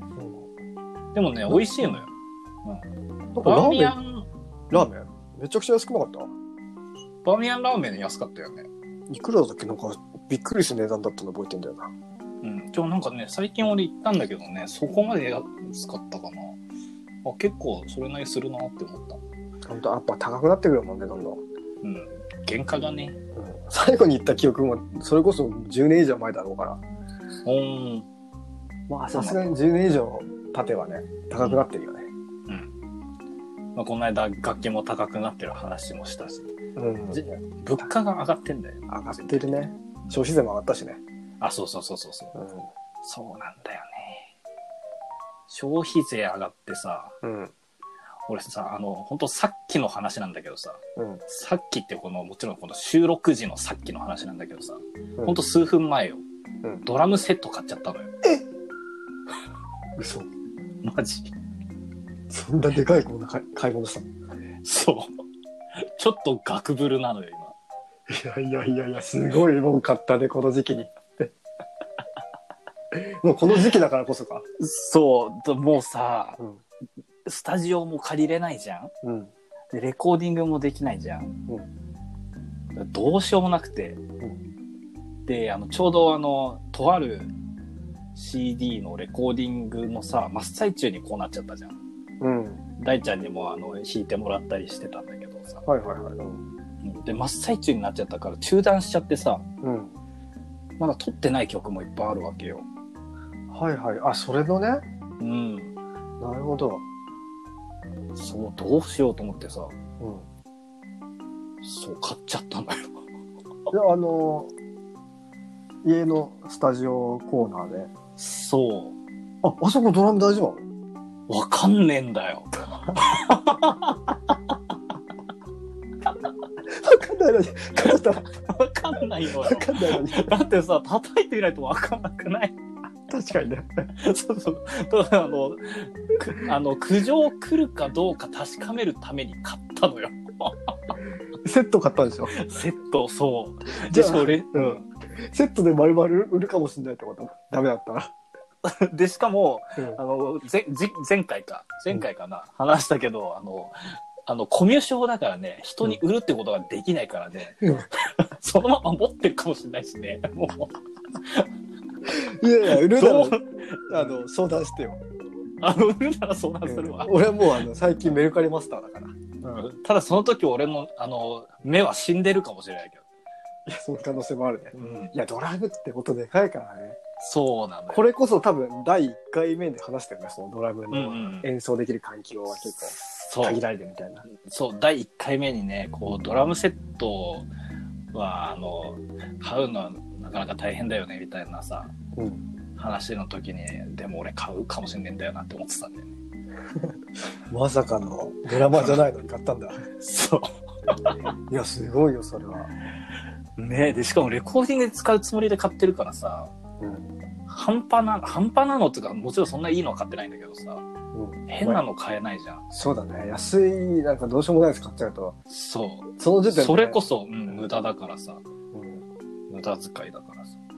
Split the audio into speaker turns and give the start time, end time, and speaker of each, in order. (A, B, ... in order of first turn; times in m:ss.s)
0:00.2-0:00.5 A
0:01.2-0:02.1 B
0:01.5-0:02.0 A
0:03.4-0:04.8 B
0:03.4-0:04.0 A
0:04.7-0:06.3 A
0:07.2-0:08.7 B
0:09.1-0:11.9 A
0:12.4-0:16.6 B
0:17.2-0:19.2 B
0:19.7-0:21.4 A
0:21.8-0:23.2 B
0:23.4-0:26.8 A
0:27.4-0:28.1 B
0:28.9-0:32.1 A
0:32.5-0:32.7 B
0:33.8-0:36.5 B
0:36.8-0:37.2 A
0:37.1-0:40.2 B
0:38.9-0:41.0 A
0:41.4-0:42.4 B
0:42.4-0:42.7 A
0:43.0-0:44.3 B
0:45.5-0:47.2 B
0:47.2-0:47.5 A
0:48.3-0:56.2 B
0:51.0-0:51.2 A
0:56.8-0:58.1 B
1:00.0-1:00.3 A
1:00.8-1:01.3 B
1:02.3-1:04.1 A
1:04.6-1:05.1 B
1:05.8-1:07.6 B
1:08.1-1:11.3 A
1:12.9-1:14.4 A
1:14.6-1:16.4 B
1:17.2-1:18.9 B
1:19.0-1:19.3 A
1:19.7-1:21.4 B
1:22.8-1:24.0 B
1:25.3-1:27.3 B
1:28.2-1:31.8 B
1:32.2-1:32.6 A
1:32.8-1:35.6 B
1:35.6-1:36.4 A
1:36.8-1:39.5 B
1:39.6-1:40.0 A
1:40.8-1:42.7 B
1:43.5-1:44.8 A
1:45.2-1:45.7 B
1:46.2-1:46.8 A
1:48.2-1:49.7 B
1:50.0-1:50.3 A
1:51.6-1:53.0 B
1:53.7-1:54.5 A
1:55.8-1:57.9 A
1:58.2-1:59.0 B
1:59.4-2:00.6 A
2:01.3-2:04.6 B
2:06.7-2:08.3 A
2:08.3-2:12.6 B
2:09.4-2:10.3 A
2:13.1-2:13.9 A
2:14.0-2:21.0 B
2:21.4-2:22.3 A
2:22.3-2:24.9 B
2:23.8-2:28.1 A
2:28.6-2:41.5 B
2:42.1-2:45.0 A
2:42.7-2:44.2 B
2:45.6-2:47.5 B
2:46.6-2:49.2 A
2:49.4-2:53.0 B
2:53.7-2:57.0 A
2:54.8-2:55.1 B
2:57.2-2:58.0 B
2:57.9-3:04.3 A
3:00.9-3:01.5 B
3:02.6-3:03.6 B
3:04.3-3:07.5 B
3:08.1-3:11.9 B
3:12.2-3:12.4 A
3:12.8-3:16.1 B
3:17.5-3:19.9 A
3:18.7-3:19.0 B
3:20.0-3:21.2 B
3:21.5-3:22.7 A
3:23.6-3:26.5 B
3:26.8-3:27.1 A
3:27.5-3:30.8 B
3:31.1-3:31.8 A
3:31.5-3:32.6 B
3:32.7-3:35.4 A
3:35.5-3:38.4 B
3:36.2-3:37.0 A
3:38.7-3:39.0 A
3:39.5-3:40.6 B